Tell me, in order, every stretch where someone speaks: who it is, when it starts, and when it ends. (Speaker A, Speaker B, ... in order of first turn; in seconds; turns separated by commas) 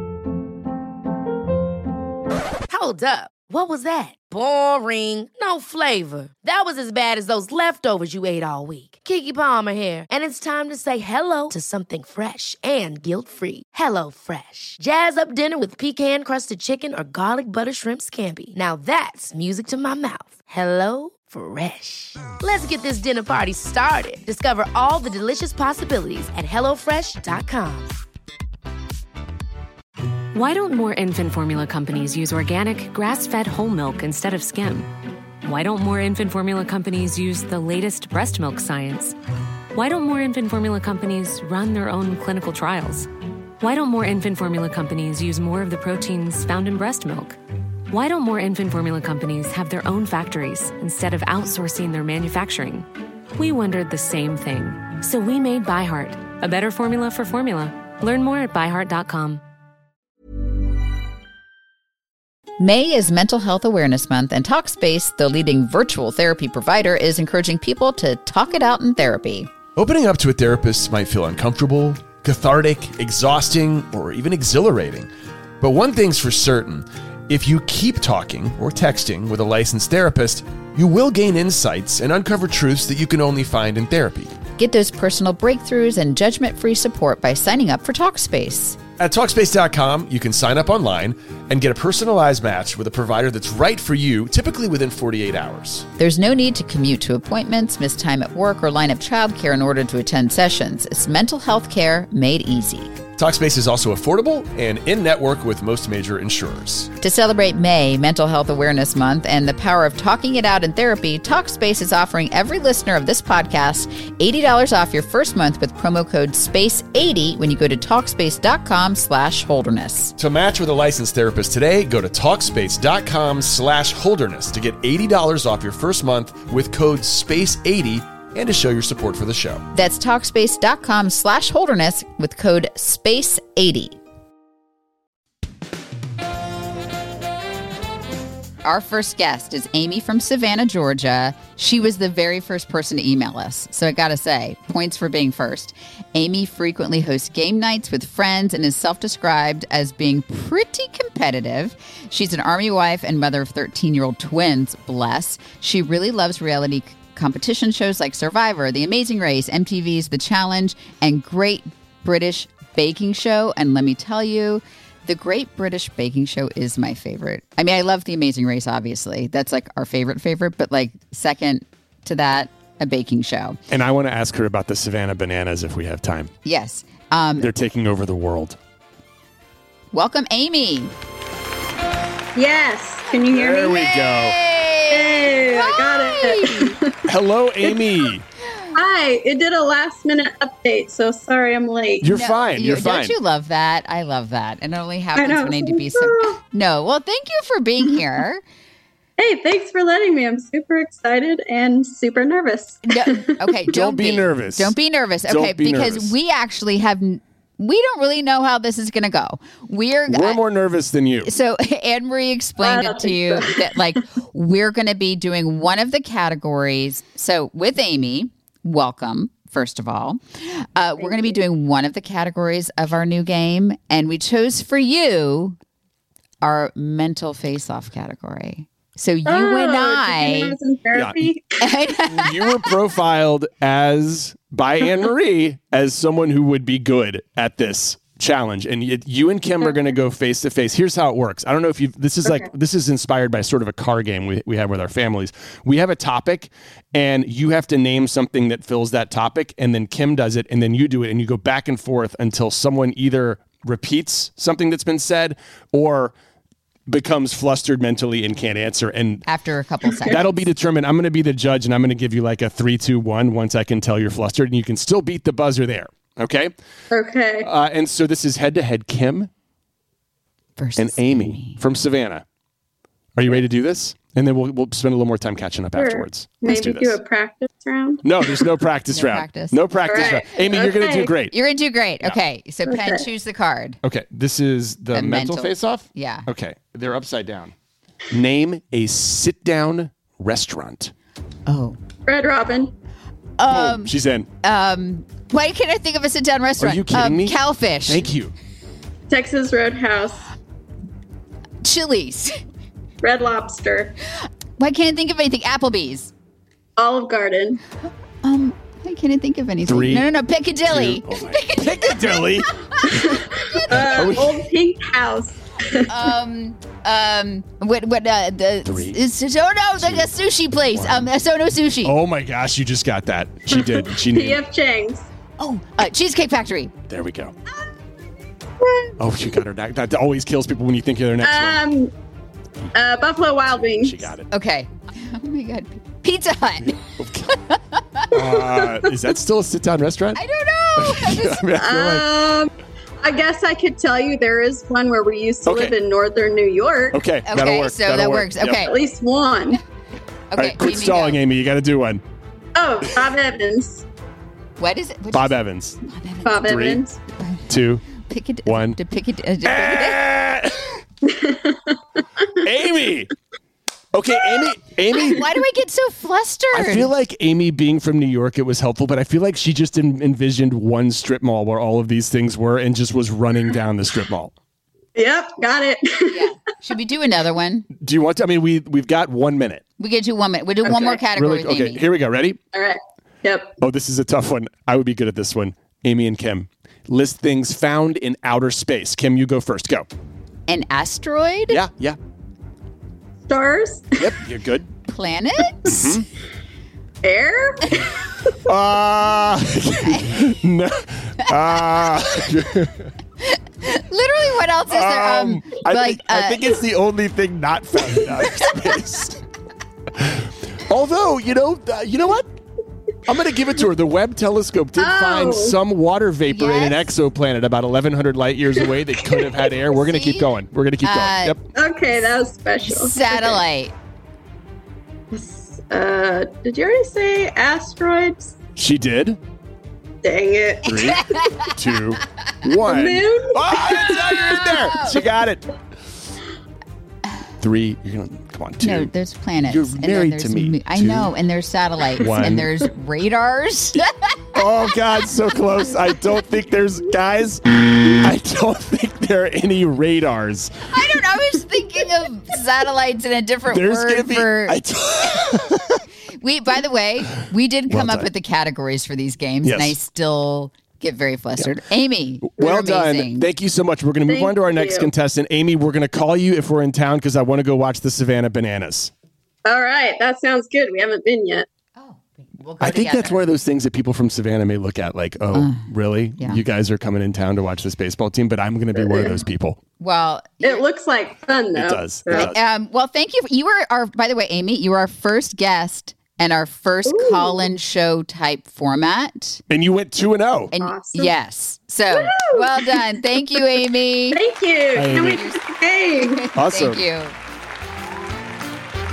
Speaker A: 2.7-28.0, Speaker B: 30.3-34.9, Speaker B: 35.4-39.2, Speaker B: 39.7-43.1, Speaker B: 43.6-47.4, Speaker B: 47.9-59.4, Speaker C: 62.6-69.5, Speaker D: 69.8-75.1, Speaker E: 69.8-70.2, Speaker E: 70.8-71.7, Speaker E: 73.2-74.6, Speaker D: 75.6-84.3, Speaker E: 75.8-76.2, Speaker E: 77.5-84.3, Speaker C: 84.6-88.8, Speaker E: 89.0-91.1, Speaker D: 89.0-95.8, Speaker E: 92.6-93.8, Speaker C: 96.0-103.0, Speaker D: 103.2-106.9, Speaker E: 103.2-104.9, Speaker C: 107.0-120.2, Speaker D: 120.2-129.6, Speaker E: 120.2-121.1, Speaker E: 126.0-126.5, Speaker E: 128.4-129.6, Speaker C: 129.7-134.0, Speaker C: 138.6-173.6, Speaker E: 173.7-176.3, Speaker C: 176.4-177.5, Speaker E: 177.4-178.6, Speaker C: 179.9-180.9, Speaker F: 182.3-183.9, Speaker E: 183.2-184.4, Speaker C: 183.9-186.8, Speaker F: 184.9-187.0, Speaker E: 187.1-188.2, Speaker F: 188.7-192.1, Speaker E: 192.0-193.2, Speaker C: 192.1-198.4, Speaker F: 195.2-196.4, Speaker F: 199.2-203.5, Speaker C: 202.8-210.4, Speaker E: 203.7-204.8, Speaker E: 205.3-206.1, Speaker E: 210.1-211.3, Speaker C: 211.2-225.6, Speaker F: 212.6-214.0, Speaker F: 221.0-221.4, Speaker C: 226.4-230.6, Speaker F: 229.3-231.6, Speaker E: 230.9-231.3, Speaker C: 231.6-232.7, Speaker E: 232.1-256.1, Speaker E: 256.9-259.2, Speaker C: 259.3-260.4, Speaker F: 259.9-260.2, Speaker E: 260.1-266.5, Speaker F: 266.9-267.5, Speaker E: 267.4-269.3, Speaker C: 270.6-271.6, Speaker E: 270.8-272.2, Speaker E: 273.1-277.0, Speaker F: 275.8-278.5, Speaker E: 278.0-281.3, Speaker C: 278.9-280.2, Speaker F: 279.8-281.2, Speaker C: 281.3-283.8, Speaker F: 282.7-283.1, Speaker E: 283.8-287.5, Speaker C: 284.9-286.3, Speaker E: 288.1-290.9, Speaker C: 291.5-291.8, Speaker F: 292.1-292.7, Speaker C: 293.4-298.1, Speaker E: 293.5-294.3, Speaker E: 296.6-298.3, Speaker F: 299.1-300.2, Speaker C: 301.6-302.4, Speaker F: 303.0-303.9, Speaker C: 304.6-306.1, Speaker F: 306.8-307.6, Speaker C: 308.2-312.9, Speaker E: 309.6-310.1, Speaker E: 310.7-314.4, Speaker F: 313.1-315.9, Speaker C: 313.6-314.1, Speaker C: 315.9-321.9, Speaker E: 318.7-319.0, Speaker E: 319.8-320.1, Speaker E: 320.7-321.1, Speaker E: 321.8-324.4, Speaker F: 323.5-325.1, Speaker C: 325.4-326.8, Speaker E: 326.9-327.3, Speaker F: 328.6-328.9, Speaker E: 329.0-331.6, Speaker F: 331.2-331.9, Speaker F: 332.7-334.1, Speaker E: 333.5-334.3, Speaker C: 334.3-336.8, Speaker E: 337.0-337.3, Speaker C: 337.4-338.1, Speaker E: 338.1-340.2, Speaker F: 338.3-338.8, Speaker C: 340.2-341.4, Speaker E: 340.8-342.1, Speaker F: 341.6-342.5, Speaker F: 343.0-347.0, Speaker E: 345.5-345.8, Speaker E: 346.9-348.6, Speaker C: 347.3-348.7, Speaker F: 348.6-349.6, Speaker C: 350.3-351.2, Speaker E: 350.4-352.0, Speaker F: 352.6-353.9, Speaker C: 354.6-356.4, Speaker E: 355.1-355.8, Speaker F: 356.2-357.0, Speaker E: 356.4-356.8, Speaker C: 357.1-360.0, Speaker E: 357.5-357.9, Speaker E: 358.5-358.8, Speaker E: 359.4-360.8, Speaker F: 361.0-362.2, Speaker E: 362.4-363.1, Speaker E: 363.9-365.2, Speaker C: 365.0-366.9, Speaker E: 366.5-374.3, Speaker F: 374.9-376.3, Speaker C: 376.1-377.7, Speaker E: 377.8-379.6, Speaker C: 379.8-381.8, Speaker E: 380.7-382.4, Speaker F: 382.5-383.6, Speaker E: 383.6-389.9, Speaker C: 390.5-391.6, Speaker E: 391.5-392.0, Speaker F: 393.3-394.1, Speaker E: 394.0-394.7, Speaker C: 394.9-395.9, Speaker E: 395.6-396.1, Speaker F: 397.0-398.2, Speaker E: 398.5-402.9, Speaker C: 403.2-406.6, Speaker E: 404.7-409.2, Speaker E: 409.9-412.3, Speaker E: 413.1-421.4, Speaker F: 414.8-415.6, Speaker C: 416.3-416.9, Speaker C: 419.9-420.3, Speaker C: 420.8-421.4, Speaker F: 421.5-423.4, Speaker C: 422.6-423.7, Speaker F: 425.1-428.3, Speaker E: 428.6-429.2, Speaker F: 430.0-431.2, Speaker E: 430.6-435.4, Speaker C: 431.0-431.5, Speaker F: 432.6-434.4, Speaker C: 433.8-435.0, Speaker E: 437.4-438.9, Speaker C: 438.6-444.1, Speaker E: 439.4-441.1, Speaker E: 442.0-442.5, Speaker E: 444.4-450.6, Speaker C: 450.7-454.6, Speaker E: 453.5-455.8, Speaker C: 456.2-463.3, Speaker E: 457.7-458.1, Speaker E: 459.4-459.8, Speaker E: 462.3-468.9, Speaker F: 464.1-464.9, Speaker F: 469.5-471.5, Speaker C: 471.8-473.3, Speaker E: 472.6-479.6, Speaker C: 475.3-475.7, Speaker C: 479.8-480.6, Speaker F: 480.4-482.3, Speaker E: 481.5-482.4, Speaker C: 482.1-489.4, Speaker F: 486.9-487.6, Speaker E: 489.5-490.5, Speaker C: 490.5-494.2, Speaker F: 490.6-491.1, Speaker F: 491.9-493.1, Speaker F: 494.1-496.3, Speaker E: 494.8-495.2, Speaker C: 494.9-495.4, Speaker C: 496.1-497.1, Speaker E: 496.4-496.8